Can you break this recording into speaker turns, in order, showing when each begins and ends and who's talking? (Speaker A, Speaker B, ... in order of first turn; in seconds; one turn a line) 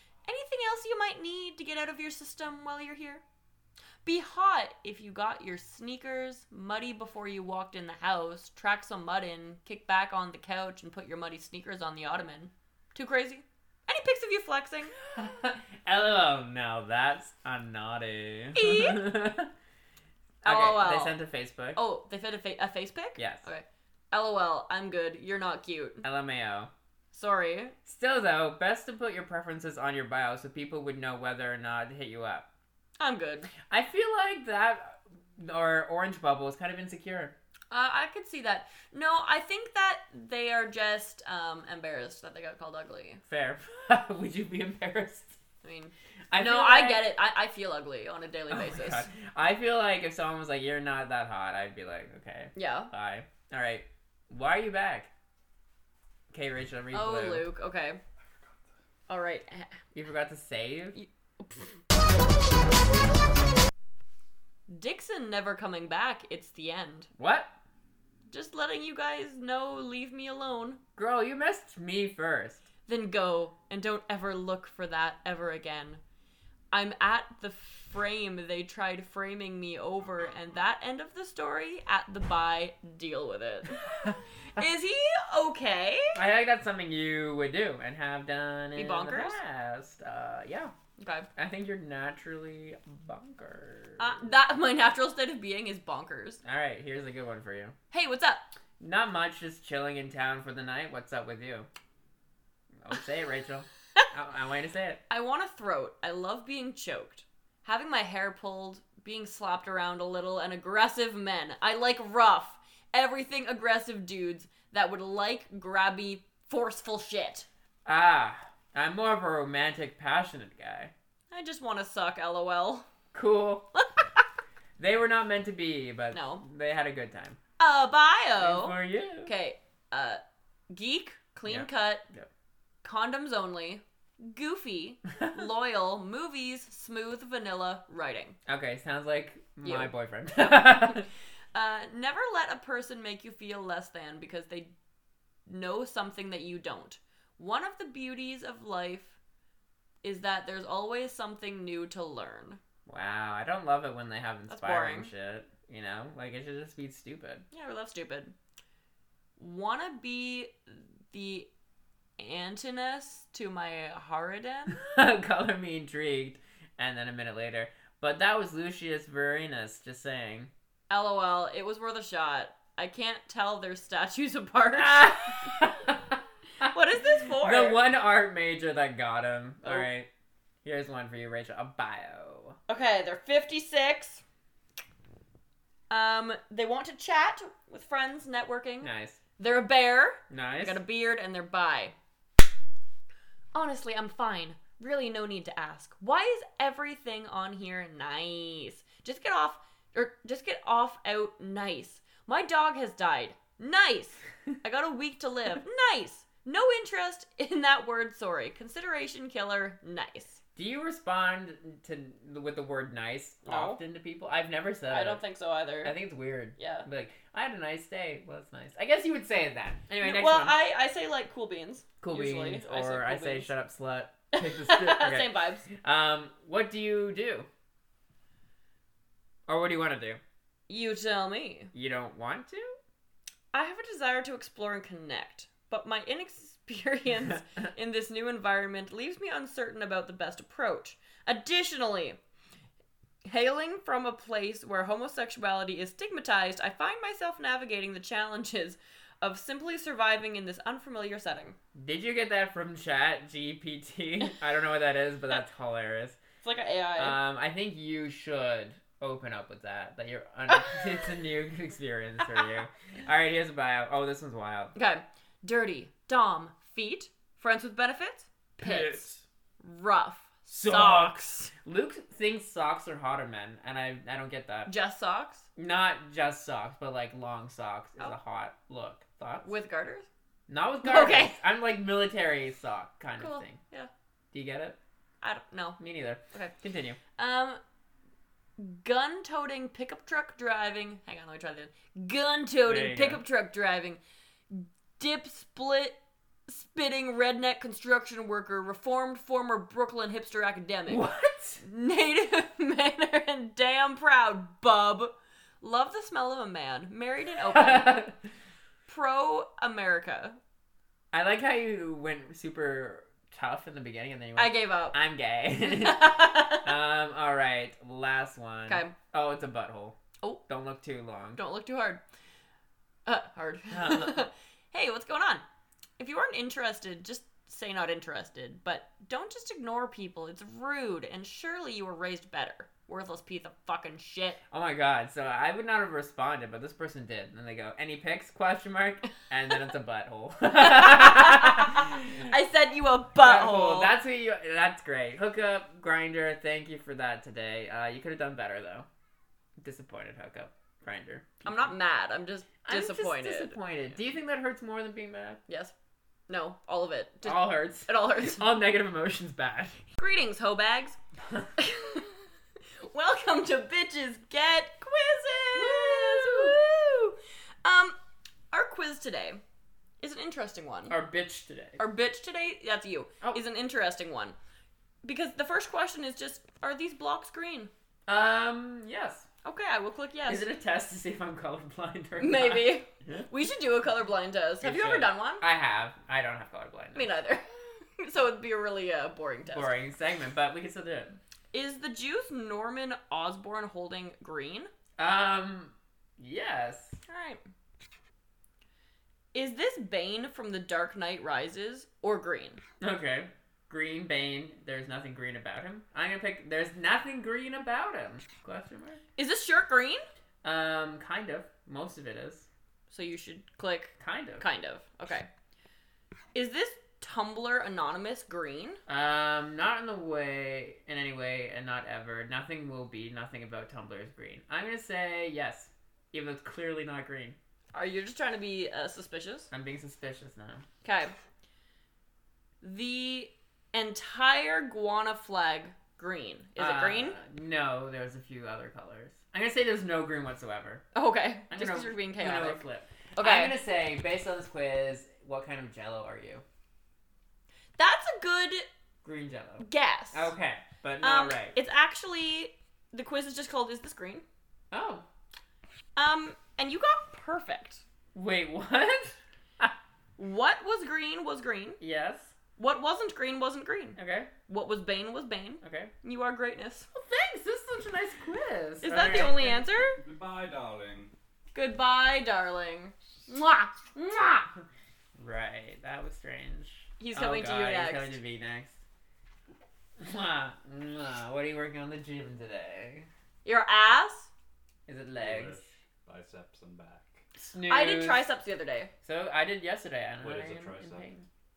Speaker A: 0.2-3.2
Speaker A: 4.0-14.9
Speaker B: 15.1-19.5
Speaker A: 18.5-19.1
Speaker B: 20.4-21.8
Speaker A: 20.4-21.2
Speaker A: 21.7-26.0
Speaker B: 23.2-23.4
Speaker B: 26.0-26.7
Speaker A: 27.1-27.8
Speaker B: 27.9-32.5
Speaker A: 33.0-33.5
Speaker B: 33.7-37.4
Speaker A: 37.7-43.2
Speaker B: 43.3-45.4
Speaker A: 45.6-49.1
Speaker B: 46.3-47.1
Speaker B: 48.5-55.1
Speaker A: 52.5-52.9
Speaker B: 56.3-57.5
Speaker A: 56.9-58.0
Speaker A: 59.1-59.8
Speaker B: 59.9-61.0
Speaker A: 60.9-61.7
Speaker A: 64.7-67.1
Speaker B: 67.2-67.5
Speaker A: 68.3-70.8
Speaker B: 71.0-72.7
Speaker A: 72.9-76.0
Speaker A: 76.7-86.2
Speaker B: 86.1-90.7
Speaker A: 88.7-89.4
Speaker A: 91.0-91.3
Speaker B: 91.4-94.2
Speaker A: 94.0-96.4
Speaker B: 96.4-97.8
Speaker A: 97.9-98.5
Speaker B: 98.8-101.7
Speaker B: 102.8-105.0
Speaker A: 105.1-117.5
Speaker B: 117.8-120.9
Speaker A: 121.3-122.9
Speaker B: 123.1-123.7
Speaker B: 124.8-127.4
Speaker A: 126.1-126.4
Speaker A: 127.6-132.0
Speaker B: 128.4-129.3
Speaker B: 131.4-132.3
Speaker A: 132.8-138.4
Speaker B: 138.5-141.1
Speaker A: 139.6-141.0
Speaker A: 141.5-144.7
Speaker A: 145.5-149.1
Speaker A: 150.0-152.6
Speaker B: 152.9-157.4
Speaker A: 154.5-155.1
Speaker A: 157.5-158.3
Speaker A: 159.4-161.5
Speaker A: 162.2-164.8
Speaker B: 164.7-170.5
Speaker A: 170.9-175.6
Speaker B: 174.7-176.7
Speaker A: 176.6-177.8
Speaker B: 177.2-180.1
Speaker B: 180.6-182.6
Speaker A: 182.7-184.2
Speaker A: 185.9-191.9
Speaker B: 188.8-189.2
Speaker B: 190.3-190.8
Speaker A: 193.5-210.4
Speaker B: 210.6-215.2
Speaker A: 213.4-213.8
Speaker A: 214.9-215.9
Speaker B: 215.8-220.6
Speaker A: 216.6-216.9
Speaker A: 220.0-223.5
Speaker B: 222.0-227.5
Speaker A: 224.3-225.7
Speaker B: 229.5-230.2
Speaker A: 230.7-231.7
Speaker B: 231.7-232.8
Speaker A: 233.5-242.2
Speaker A: 243.2-251.6
Speaker B: 251.7-256.2
Speaker A: 256.4-257.2
Speaker B: 257.0-264.7
Speaker A: 264.7-269.1
Speaker B: 268.6-269.2
Speaker A: 269.6-271.5
Speaker B: 270.5-274.7
Speaker A: 274.6-275.5
Speaker B: 275.6-279.5
Speaker A: 279.4-280.1
Speaker B: 280.5-283.6
Speaker A: 280.8-281.4
Speaker A: 283.2-283.9
Speaker B: 284.3-284.8
Speaker A: 285.2-285.8
Speaker B: 285.8-287.0
Speaker A: 287.2-287.6
Speaker A: 288.6-294.0
Speaker B: 292.6-293.2
Speaker A: 294.5-296.0
Speaker A: 296.5-301.0
Speaker B: 300.9-301.6
Speaker A: 301.6-308.1
Speaker B: 307.5-308.1
Speaker A: 308.9-310.4
Speaker B: 311.1-321.4
Speaker A: 314.4-315.0
Speaker A: 315.6-316.7
Speaker A: 318.7-318.9
Speaker A: 321.4-322.0
Speaker A: 323.1-325.4
Speaker B: 323.7-324.2
Speaker A: 326.0-334.4
Speaker B: 334.5-342.2
Speaker A: 340.6-343.9
Speaker B: 343.2-348.9
Speaker B: 349.6-351.7
Speaker A: 351.4-353.6
Speaker B: 352.6-355.4
Speaker A: 355.5-355.7
Speaker A: 356.3-358.5
Speaker B: 357.2-359.8
Speaker A: 360.0-361.0
Speaker A: 361.6-362.1
Speaker A: 362.8-367.9
Speaker B: 365.5-366.6
Speaker A: 368.5-369.4
Speaker A: 370.0-370.9
Speaker B: 370.9-371.8
Speaker A: 371.8-374.4
Speaker A: 375.0-377.7
Speaker B: 378.1-379.3
Speaker A: 379.4-380.4
Speaker B: 380.3-383.3
Speaker A: 382.2-385.4
Speaker B: 384.6-387.1
Speaker A: 386.9-389.7
Speaker B: 389.5-391.2
Speaker A: 391.5-394.7
Speaker B: 395.0-397.0
Speaker A: 397.1-397.4
Speaker A: 399.3-402.6
Speaker B: 402.8-409.0
Speaker A: 409.2-410.0
Speaker B: 410.4-412.5
Speaker A: 412.9-415.3
Speaker B: 414.0-414.4
Speaker A: 416.3-418.8
Speaker B: 418.9-427.4
Speaker A: 427.7-429.5
Speaker B: 429.5-430.6
Speaker A: 430.8-431.1
Speaker A: 432.6-437.2
Speaker B: 436.6-440.9
Speaker A: 440.9-442.6
Speaker B: 441.5-446.4
Speaker A: 443.2-443.6
Speaker A: 447.8-448.7
Speaker B: 449.0-451.6
Speaker A: 449.6-450.3
Speaker A: 451.0-454.2
Speaker B: 454.7-455.0
Speaker A: 455.9-457.8
Speaker B: 458.1-459.7
Speaker A: 460.2-461.8
Speaker B: 461.8-462.3
Speaker A: 462.6-466.9
Speaker B: 464.0-464.3
Speaker B: 465.6-465.9
Speaker B: 466.9-469.6
Speaker A: 468.8-470.0
Speaker C: 469.9-471.1
Speaker A: 471.5-474.4
Speaker B: 475.2-478.8
Speaker A: 477.0-478.2
Speaker B: 480.0-483.1
Speaker A: 483.4-484.3
Speaker B: 484.9-485.6
Speaker C: 485.1-487.2
Speaker B: 487.4-488.3
Speaker A: 487.7-488.9
Speaker B: 489.0-491.2
Speaker C: 490.2-491.1